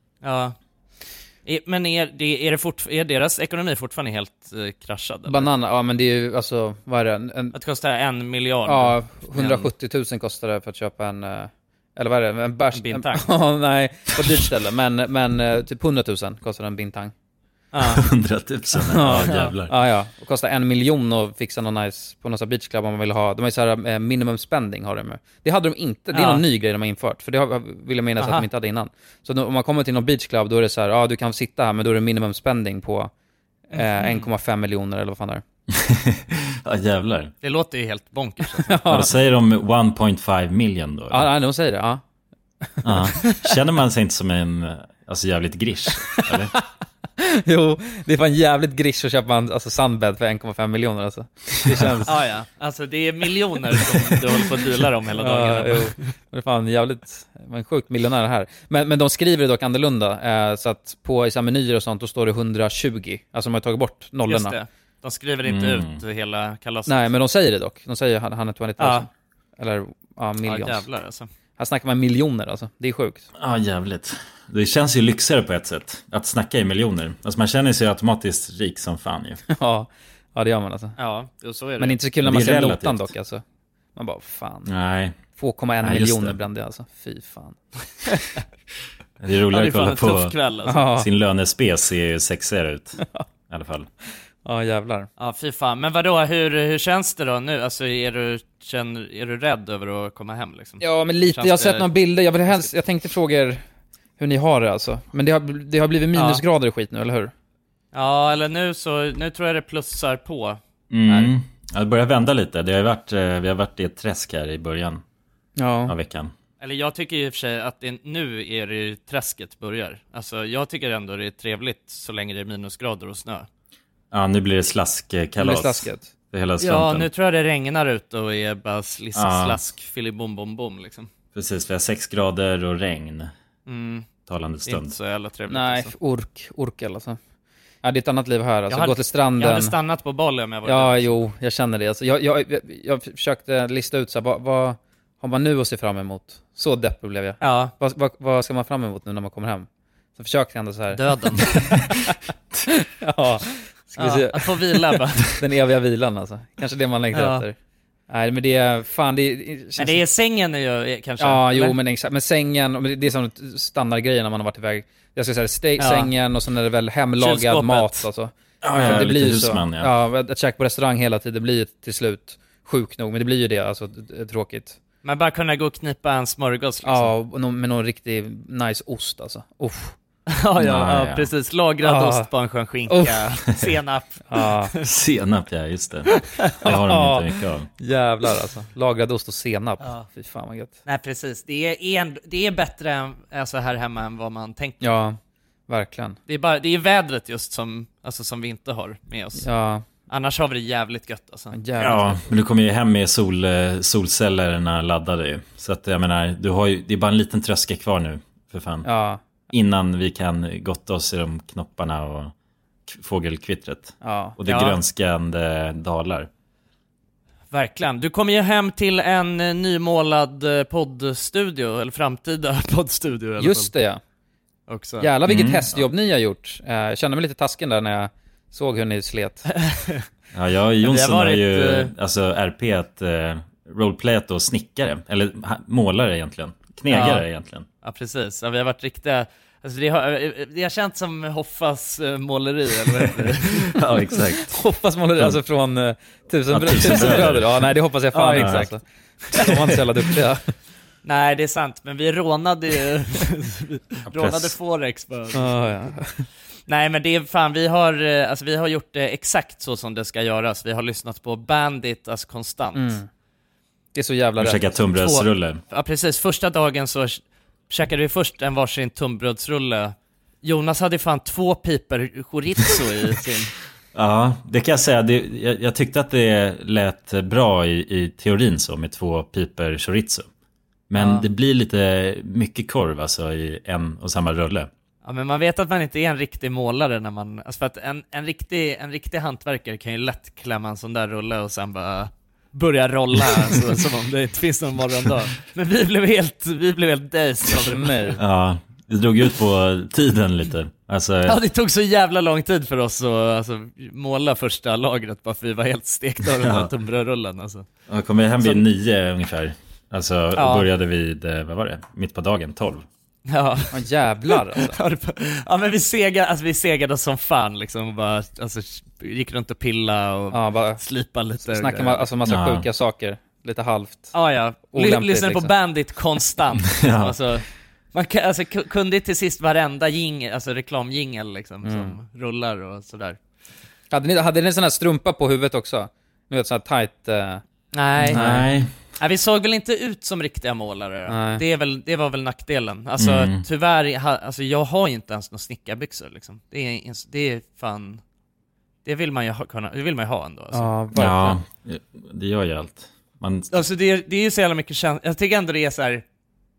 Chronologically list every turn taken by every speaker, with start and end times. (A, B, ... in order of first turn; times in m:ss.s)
0:00.2-0:00.6 A
0:01.4-0:05.5 A
0:05.3-0:07.6 B
0:07.6-0:09.7 A
0:08.7-0:17.1 B
0:12.7-0:13.3 A
0:17.7-0:18.0 A
0:17.8-0:19.8 C
0:18.9-0:33.1 B
0:19.3-0:19.5 A
0:26.1-0:26.4 A
0:28.2-0:28.5 A
0:33.7-0:34.3 A
0:33.7-0:35.4 B
0:35.7-0:37.3 C
0:37.4-0:38.9 A
0:38.7-0:39.1 B
0:38.9-0:41.3 C
0:41.1-0:42.0 B
0:42.8-0:46.6 C
0:47.2-0:52.1 B
0:52.1-0:56.1 A
0:55.2-1:04.6 B
1:04.3-1:07.1 A
1:05.4-1:06.0 C
1:06.9-1:10.9 B
1:08.8-1:09.1 A
1:10.5-1:11.3 A
1:11.6-1:13.3 B
1:13.4-1:19.4 C
1:19.5-1:21.0 B
1:21.0-1:22.0 A
1:21.8-1:23.4 B
1:22.2-1:23.1 C
1:24.0-1:24.7 B
1:24.7-1:25.2 C
1:25.4-1:28.2 B
1:25.8-1:26.4 C
1:29.2-1:33.9 C
1:29.5-1:30.8 A
1:30.7-1:31.1 B
1:33.0-1:33.2 B
1:34.4-1:35.1 B
1:35.2-1:41.9 A
1:40.8-1:43.6 B
1:44.2-1:47.3 B
1:46.1-1:46.4 A
1:47.9-1:51.3 A
1:50.9-1:55.0 C
1:55.6-1:55.9 B
1:55.9-1:56.3 C
1:56.6-2:03.5 A
2:04.1-2:07.1 C
2:05.4-2:06.1 B
2:06.6-2:11.1 A
2:09.2-2:09.6 C
2:11.4-2:13.3 C
2:13.7-2:14.1 A
2:14.3-2:14.9 C
2:14.6-2:16.0 A
2:15.5-2:17.2 B
2:17.8-2:19.7 B
2:18.7-2:21.2 A
2:20.7-2:32.1 B
2:27.4-2:27.7 A
2:30.9-2:31.6 A
2:32.7-2:34.6 B
2:34.0-2:35.3 A
2:35.3-2:37.6 B
2:37.1-2:37.4 A
2:38.1-2:40.0 B
2:39.8-2:41.8 A
2:41.2-2:54.8 B
2:45.8-2:46.1 A
2:47.2-2:48.1 A
2:48.6-2:49.9 C
2:48.8-2:49.1 A
2:55.0-2:57.1 A
2:56.8-3:00.0 B
3:00.3-3:04.8 A
3:00.6-3:01.3 C
3:01.8-3:02.3 B
3:02.9-3:03.2 B
3:04.3-3:04.7 B
3:04.8-3:07.7 C
3:06.6-3:07.3 B
3:07.8-3:10.7 B
3:10.9-3:14.8 A
3:14.8-3:16.2 B
3:16.3-3:19.5 A
3:19.4-3:19.8 B
3:20.1-3:22.2 A
3:21.5-3:22.0 B
3:21.8-3:28.9 C
3:28.8-3:29.2 B
3:29.5-3:32.3 C
3:32.9-3:36.3 C
3:34.0-3:34.8 B
3:37.5-3:43.7 A
3:43.4-3:44.0 B
3:44.7-3:45.1 A
3:45.0-3:49.5 B
3:45.3-3:45.8 C
3:49.6-3:50.0 A
3:50.3-3:57.7 C
3:50.8-3:51.9 A
3:56.9-3:57.2 A
3:57.8-4:03.8 A
4:03.1-4:04.6 C
4:04.5-4:10.5 B
4:06.5-4:07.7 C
4:08.1-4:08.8 A
4:08.3-4:08.7 C
4:11.0-4:16.0 A
4:14.1-4:14.6 C
4:15.3-4:16.3 B
4:16.7-4:23.0 A
4:22.8-4:23.1 B
4:24.0-4:24.7 B
4:24.4-4:25.6 C
4:25.0-4:33.5 A
4:33.9-4:40.3 C
4:40.9-4:44.7 C
4:41.0-4:41.3 A
4:45.0-4:58.2 A
4:57.7-4:58.2 B
4:58.2-5:01.4 C
5:01.3-5:07.7 A
5:06.4-5:06.7 C
5:07.9-5:12.8 C
5:10.4-5:10.7 A
5:13.3-5:22.1 A
5:13.7-5:14.8 B
5:20.3-5:20.8 B
5:21.5-5:24.2 B
5:22.3-5:22.7 C
5:24.1-5:33.2 A
5:24.7-5:25.5 B
5:26.8-5:27.2 C
5:31.6-5:32.0 B
5:33.9-5:37.4 B
5:37.7-5:38.2 A
5:38.0-5:38.7 C
5:38.1-5:38.5 B
5:39.0-5:48.0 A
5:41.1-5:41.4 B
5:43.0-5:43.4 C
5:48.8-5:50.7 A
5:50.5-5:51.4 B
5:50.9-5:53.5 C
5:53.5-5:56.0 A